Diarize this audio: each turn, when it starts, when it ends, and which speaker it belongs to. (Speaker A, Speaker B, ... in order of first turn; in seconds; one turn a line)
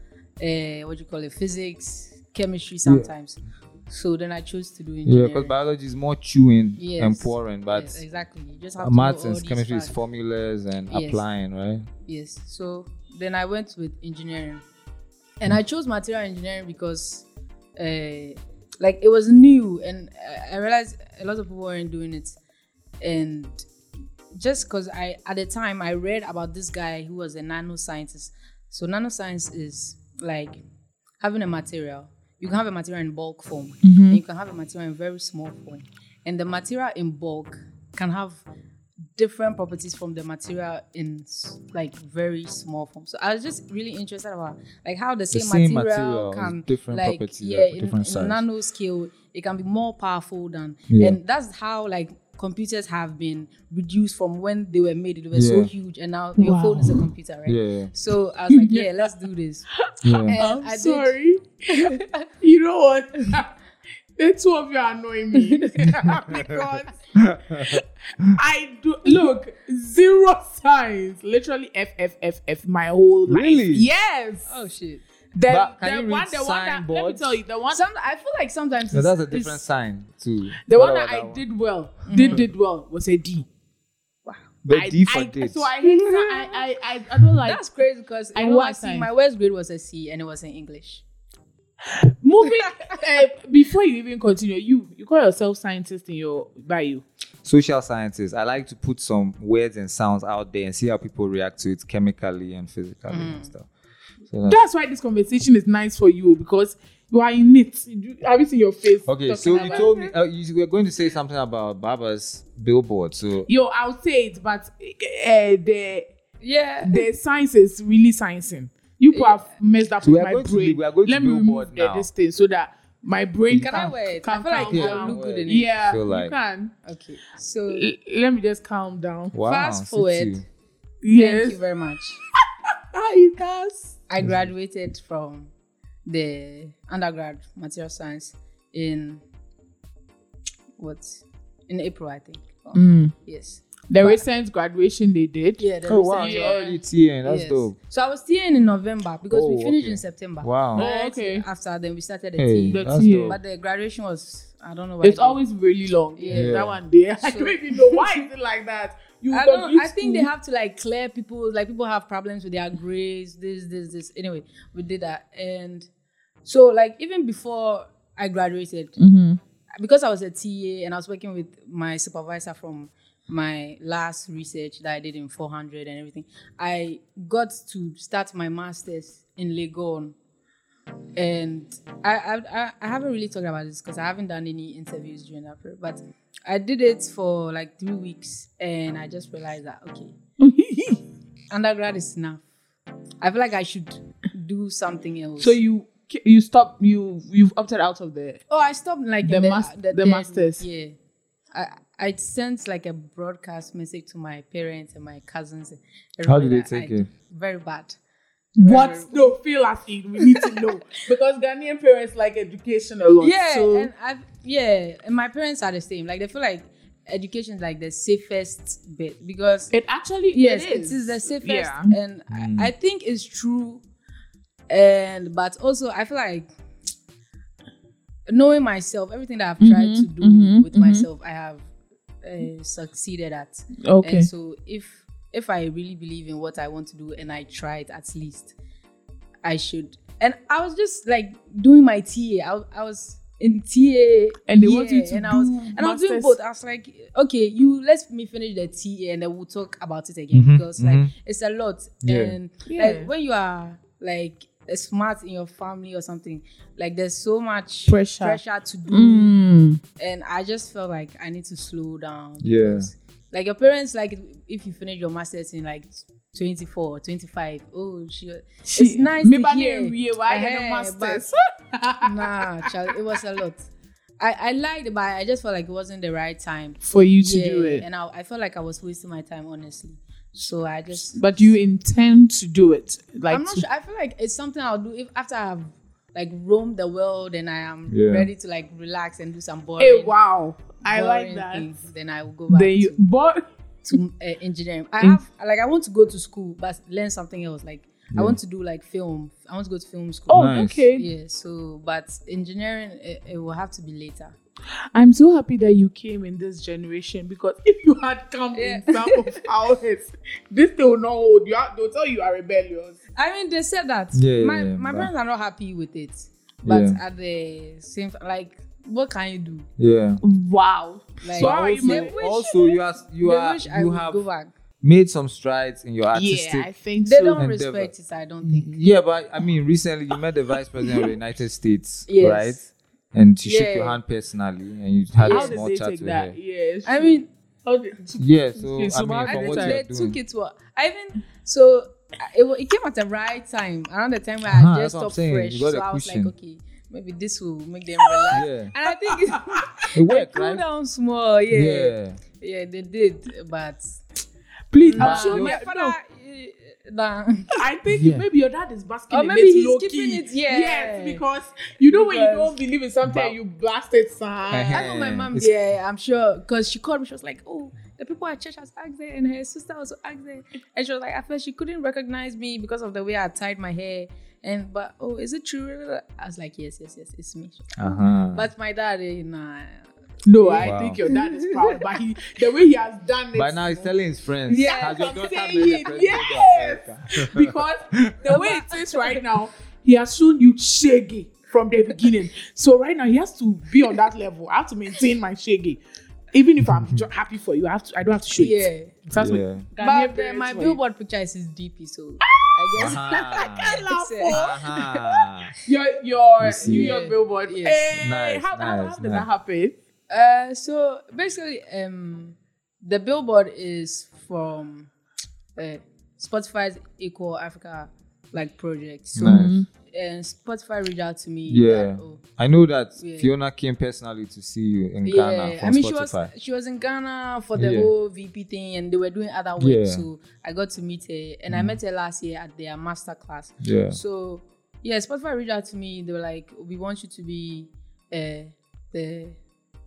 Speaker A: 0.4-5.5
Speaker B: 5.0-8.0
Speaker A: 6.8-9.9
Speaker B: 8.8-11.9
Speaker A: 10.9-11.2
Speaker A: 12.1-14.6
Speaker A: 15.4-17.2
Speaker A: 17.8-22.4
Speaker A: 23.0-23.6
Speaker A: 24.3-30.6
Speaker A: 31.2-38.4
Speaker C: 33.8-34.2
Speaker A: 39.1-59.7
Speaker B: 45.3-48.4
Speaker B: 50.9-51.2
Speaker B: 55.3-55.7
Speaker C: 56.4-57.1
Speaker B: 57.5-57.9
Speaker C: 58.5-59.1
Speaker C: 59.8-63.5
Speaker B: 60.0-60.4
Speaker A: 60.3-61.1
Speaker A: 61.7-62.2
Speaker C: 64.2-74.5
Speaker A: 65.4-66.1
Speaker B: 66.3-66.6
Speaker B: 67.2-67.8
Speaker B: 73.3-73.9
Speaker A: 74.5-75.0
Speaker C: 75.3-77.8
Speaker B: 75.5-77.4
Speaker A: 77.7-79.6
Speaker B: 78.9-81.4
Speaker C: 80.7-83.5
Speaker A: 82.1-82.4
Speaker B: 84.6-85.7
Speaker C: 84.7-87.6
Speaker A: 85.8-86.6
Speaker A: 87.4-91.0
Speaker C: 88.3-89.1
Speaker C: 91.9-97.0
Speaker B: 97.4-103.7
Speaker A: 103.1-103.5
Speaker B: 104.3-104.6
Speaker C: 104.5-110.1
Speaker B: 109.0-113.5
Speaker A: 109.5-109.9
Speaker C: 113.5-116.0
Speaker A: 116.4-117.0
Speaker C: 116.8-126.7
Speaker A: 119.1-119.5
Speaker B: 120.0-122.1
Speaker B: 123.5-123.9
Speaker A: 123.6-125.7
Speaker B: 124.6-126.3
Speaker A: 126.8-127.9
Speaker C: 127.7-129.3
Speaker B: 129.3-130.4
Speaker A: 129.4-130.4
Speaker C: 131.0-131.6
Speaker A: 131.1-132.2
Speaker C: 132.9-134.0
Speaker A: 134.1-135.5
Speaker B: 134.2-134.4
Speaker A: 136.1-139.2
Speaker A: 140.8-144.2
Speaker C: 142.7-143.1
Speaker C: 143.9-146.6
Speaker A: 145.6-155.4
Speaker B: 145.8-147.8
Speaker B: 149.3-150.9
Speaker C: 150.8-151.4
Speaker B: 152.4-153.4
Speaker C: 152.7-153.4
Speaker C: 155.0-160.3
Speaker A: 156.2-156.6
Speaker B: 156.3-156.8
Speaker A: 157.2-158.2
Speaker A: 159.3-165.9
Speaker A: 166.4-169.0
Speaker C: 169.0-169.4
Speaker A: 169.8-180.1
Speaker A: 181.2-190.2
Speaker C: 190.4-191.0
Speaker A: 191.5-192.4
Speaker A: 193.2-195.6
Speaker C: 195.4-198.4
Speaker A: 198.5-200.9
Speaker C: 199.2-200.6
Speaker A: 201.5-208.0
Speaker B: 206.2-207.1
Speaker C: 208.6-213.9
Speaker A: 208.6-209.3
Speaker A: 213.2-219.7
Speaker C: 219.7-221.9
Speaker A: 220.3-223.8
Speaker B: 222.3-222.7
Speaker A: 224.7-226.5
Speaker A: 228.3-231.7
Speaker C: 229.6-231.1
Speaker A: 232.2-238.5
Speaker C: 233.8-234.3
Speaker A: 239.4-259.4
Speaker C: 244.5-246.3
Speaker B: 250.3-251.1
Speaker B: 252.0-252.3
Speaker C: 252.7-253.1
Speaker C: 257.9-259.8
Speaker A: 260.0-271.3
Speaker B: 262.4-262.9
Speaker C: 268.7-272.5
Speaker A: 272.0-273.7
Speaker A: 274.2-281.6
Speaker C: 276.8-277.8
Speaker C: 281.1-283.6
Speaker A: 283.3-290.1
Speaker B: 287.9-288.3
Speaker C: 289.8-291.7
Speaker A: 290.8-293.0
Speaker C: 292.5-293.4
Speaker A: 293.9-304.3
Speaker B: 298.1-298.4
Speaker C: 300.3-301.1
Speaker B: 300.3-300.8
Speaker C: 304.9-313.0
Speaker A: 308.5-309.4
Speaker A: 313.1-319.7
Speaker B: 314.1-315.1
Speaker B: 316.6-317.0
Speaker B: 319.8-320.2
Speaker C: 320.2-322.2
Speaker A: 321.2-324.5
Speaker B: 321.4-324.2
Speaker B: 324.8-326.7
Speaker C: 326.1-327.4
Speaker A: 327.0-328.7
Speaker B: 327.3-327.9
Speaker B: 328.4-336.4
Speaker A: 332.1-332.6
Speaker A: 333.4-334.0
Speaker C: 335.2-339.8
Speaker A: 335.2-335.6
Speaker A: 336.9-337.3
Speaker B: 338.2-340.2
Speaker A: 339.2-353.9
Speaker B: 344.4-346.3
Speaker B: 348.3-348.7
Speaker C: 349.3-349.6
Speaker B: 349.9-350.6
Speaker B: 351.5-352.2
Speaker C: 354.7-355.9
Speaker A: 354.8-357.6
Speaker B: 355.0-355.6
Speaker C: 357.6-364.9
Speaker B: 357.9-358.2
Speaker A: 359.1-361.2
Speaker A: 361.9-362.5
Speaker B: 363.0-363.4
Speaker B: 364.5-365.5
Speaker A: 364.7-379.9
Speaker B: 377.8-378.5
Speaker C: 380.2-383.9
Speaker A: 380.4-381.8
Speaker B: 380.6-381.0
Speaker B: 383.3-388.2
Speaker A: 384.5-385.9
Speaker C: 384.5-395.8
Speaker A: 388.3-389.2
Speaker C: 396.3-400.8
Speaker B: 396.7-397.0
Speaker A: 398.3-398.9
Speaker B: 399.1-399.6
Speaker A: 399.8-404.4
Speaker C: 402.3-404.7
Speaker B: 402.8-405.5
Speaker C: 405.6-409.7
Speaker B: 406.4-406.9
Speaker A: 406.6-407.8
Speaker B: 407.9-409.3
Speaker A: 410.1-414.9
Speaker A: 415.6-422.2
Speaker B: 419.1-419.5
Speaker C: 419.2-419.7
Speaker B: 421.5-426.3
Speaker A: 423.0-423.3
Speaker A: 425.0-439.4
Speaker B: 427.6-427.9
Speaker B: 429.6-430.1
Speaker B: 431.5-431.8
Speaker B: 433.6-434.0